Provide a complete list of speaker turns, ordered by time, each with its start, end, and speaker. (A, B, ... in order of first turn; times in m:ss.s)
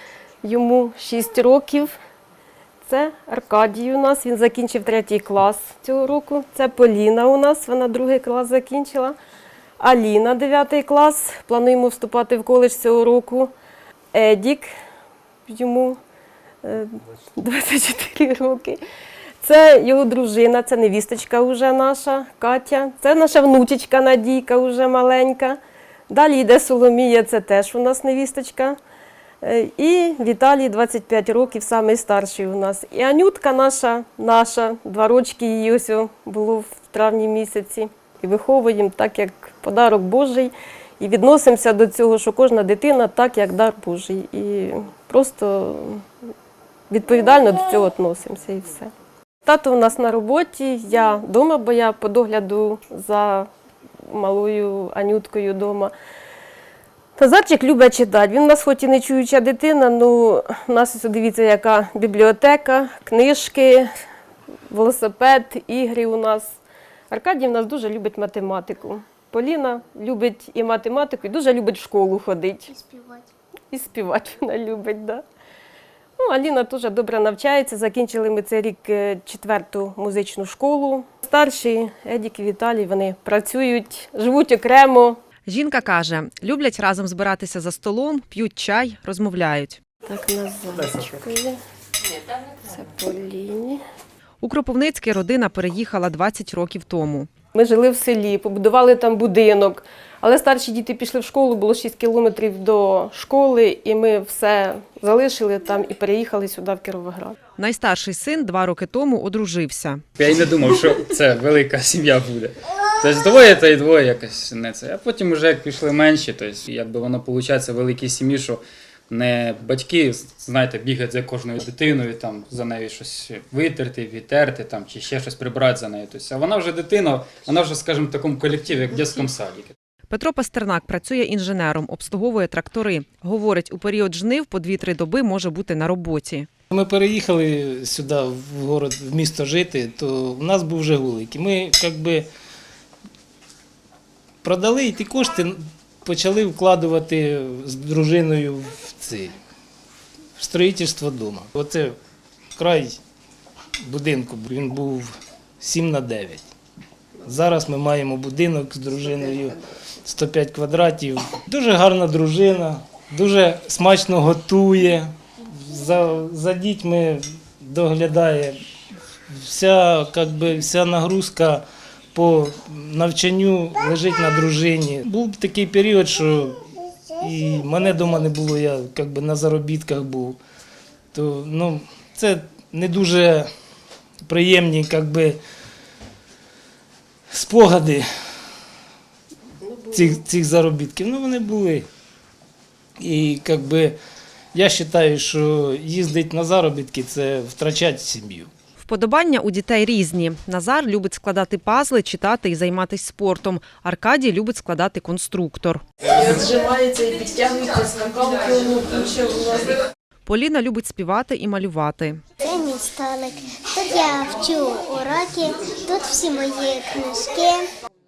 0:00.4-0:01.9 A
0:02.8-0:09.2 A
0:09.8-0:13.5 A
0:14.1-0:14.7 A
0:15.5-0:16.0 A
0:16.6-0:18.8 A
0:19.4-0:25.6 A
0:26.1-0:28.8 A
0:29.4-0:46.0 A
0:46.9-0:48.9 A
0:49.4-0:53.5 A
0:54.0-0:55.9 A
0:57.2-1:03.9 A
1:04.7-1:06.6 A
1:07.1-1:12.8 A
1:13.7-1:15.2 A
1:16.2-1:25.2 A
1:25.4-1:29.8 B
1:30.1-1:31.6 A
1:32.6-1:33.8 A
1:34.4-1:37.3 B
1:37.5-1:47.4 A
1:47.6-1:50.0 B
1:50.2-2:09.7 C
2:10.1-2:16.5 B
2:16.7-2:22.3 D
2:24.4-2:29.4 D
2:30.4-2:32.0 D
2:32.6-2:33.0 D
2:33.8-2:36.5 D
2:37.2-2:48.6 D
2:49.3-3:00.4 D
3:01.1-3:03.5 D
3:04.2-3:05.4 D
3:07.3-3:08.0 D
3:09.9-3:11.9 D
3:13.0-3:14.0 D
3:14.5-3:18.5 D
3:18.8-3:25.8 B
3:26.1-3:29.8 A
3:30.2-3:32.2 B
3:32.4-3:37.7 E